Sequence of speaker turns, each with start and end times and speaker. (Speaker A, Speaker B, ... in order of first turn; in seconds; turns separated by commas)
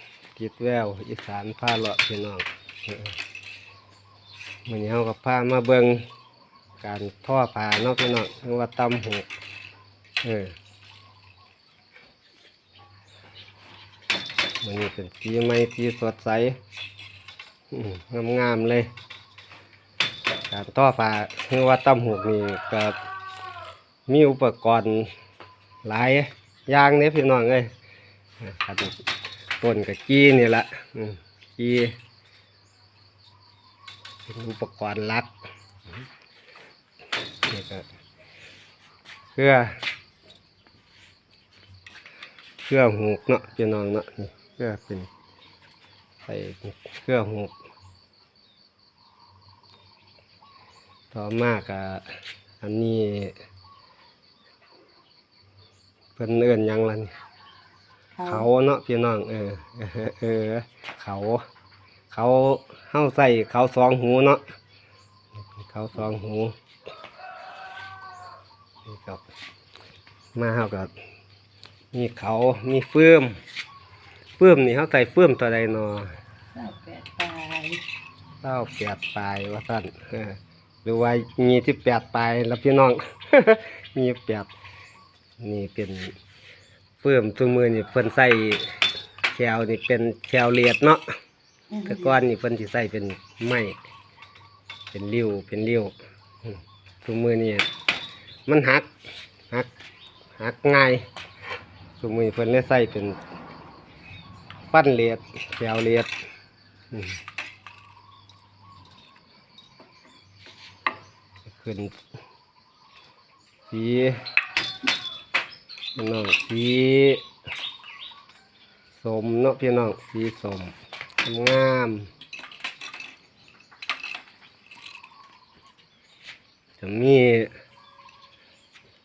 Speaker A: 0.3-3.1, Speaker A: 4.7-6.0, Speaker A: 6.8-9.3, Speaker A: 10.2-10.6, Speaker A: 14.6-16.6, Speaker A: 17.7-18.9, Speaker A: 20.5-22.9, Speaker A: 24.1-25.1, Speaker A: 25.8-27.7, Speaker A: 28.4-29.0, Speaker A: 29.6-31.9, Speaker A: 34.2-35.3, Speaker A: 37.5-37.9, Speaker A: 39.3-39.8, Speaker A: 42.6-45.1, Speaker A: 46.2-47.5, Speaker A: 51.1-53.3, Speaker A: 56.1-57.1, Speaker B: 58.2-58.5, Speaker A: 58.2-61.4, Speaker A: 62.1-64.4, Speaker A: 65.6-66.5, Speaker A: 68.8-69.2, Speaker A: 70.3-70.9, Speaker A: 71.9-73.4, Speaker A: 74.4-76.1, Speaker B: 76.5-77.8, Speaker A: 78.4-84.5, Speaker A: 85.4-86.1, Speaker A: 87.0-88.8, Speaker A: 89.3-91.0, Speaker B: 91.7-92.0, Speaker A: 91.8-93.8, Speaker A: 94.9-95.9, Speaker A: 96.5-97.7, Speaker A: 98.5-98.9, Speaker A: 100.4-101.0, Speaker A: 102.0-103.2, Speaker A: 104.7-106.1, Speaker A: 106.9-107.2, Speaker A: 111.5-111.9, Speaker A: 113.7-114.2, Speaker A: 116.0-117.2, Speaker A: 118.9-122.1, Speaker A: 126.8-127.5